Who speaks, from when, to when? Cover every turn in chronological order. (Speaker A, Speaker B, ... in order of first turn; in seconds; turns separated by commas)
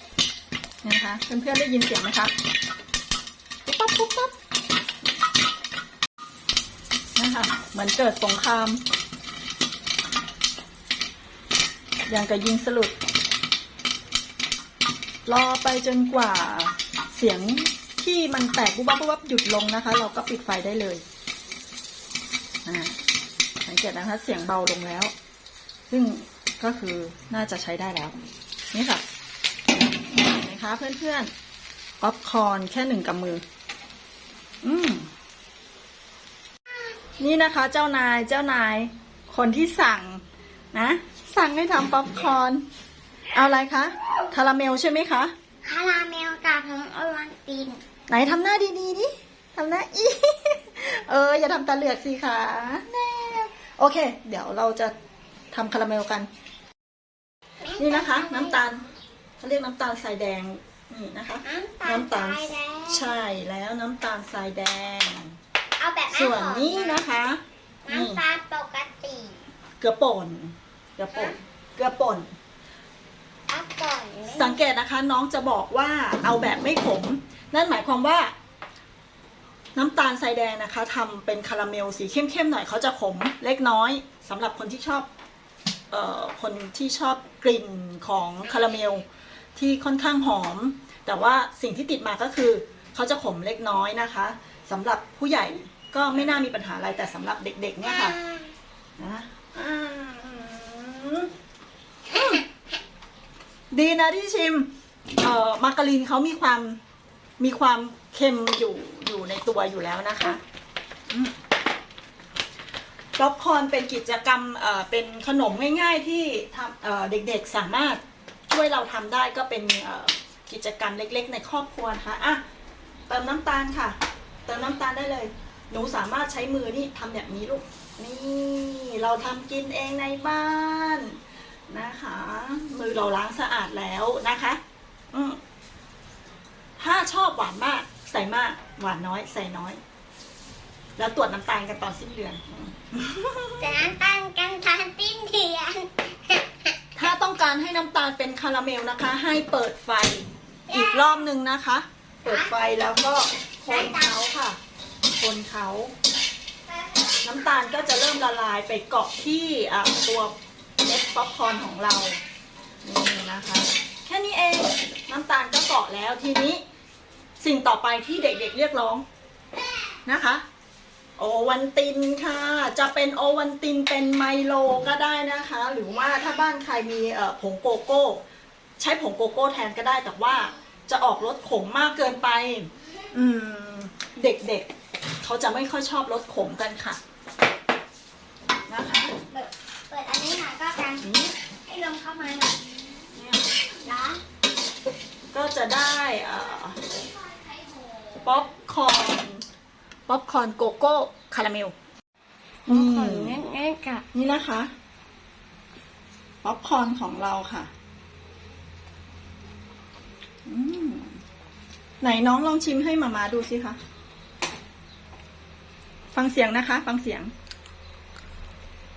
Speaker A: 0.8-2.3, Speaker A: 3.6-4.3, Speaker A: 7.2-8.8, Speaker A: 12.1-13.0, Speaker A: 15.2-21.0, Speaker A: 22.6-23.0, Speaker A: 23.6-25.1, Speaker A: 25.9-28.1, Speaker A: 28.7-29.0, Speaker A: 30.1-31.3, Speaker A: 32.0-33.4, Speaker A: 34.6-35.1, Speaker A: 37.2-42.6, Speaker A: 43.3-45.3, Speaker B: 45.6-47.8, Speaker A: 48.1-54.9, Speaker A: 55.5-56.3, Speaker B: 57.6-58.6, Speaker A: 57.8-58.8, Speaker A: 59.4-65.4, Speaker B: 61.4-63.2, Speaker B: 65.8-67.0, Speaker A: 66.1-68.2, Speaker B: 67.8-69.4, Speaker A: 69.8-72.3, Speaker B: 73.5-74.6, Speaker A: 74.3-78.3, Speaker A: 79.8-85.1, Speaker A: 85.9-89.0, Speaker A: 89.5-98.2, Speaker B: 98.1-98.4, Speaker A: 99.0-101.3, Speaker A: 102.1-102.4, Speaker A: 103.7-106.8, Speaker A: 107.4-110.4, Speaker A: 113.2-122.4, Speaker A: 123.1-131.2, Speaker A: 131.7-134.6, Speaker A: 135.1-135.4, Speaker A: 136.8-139.8, Speaker A: 141.0-143.7, Speaker B: 143.6-146.6, Speaker A: 146.9-154.6, Speaker B: 150.7-151.1, Speaker B: 153.7-154.1, Speaker A: 155.1-155.9, Speaker A: 157.2-162.2, Speaker A: 162.8-166.6, Speaker A: 167.4-169.0, Speaker A: 170.1-170.4, Speaker A: 171.2-178.2, Speaker A: 178.8-184.7, Speaker A: 185.2-187.0, Speaker A: 188.7-189.2, Speaker B: 189.3-191.1, Speaker A: 191.0-191.3, Speaker B: 191.7-192.6, Speaker A: 193.1-193.4, Speaker B: 193.8-194.2, Speaker A: 195.3-196.8, Speaker A: 198.2-199.4, Speaker A: 200.1-201.7, Speaker A: 202.7-203.4, Speaker B: 202.7-204.0, Speaker A: 204.1-204.7, Speaker A: 206.4-207.7, Speaker A: 210.4-211.2, Speaker A: 212.0-213.8, Speaker A: 216.1-217.3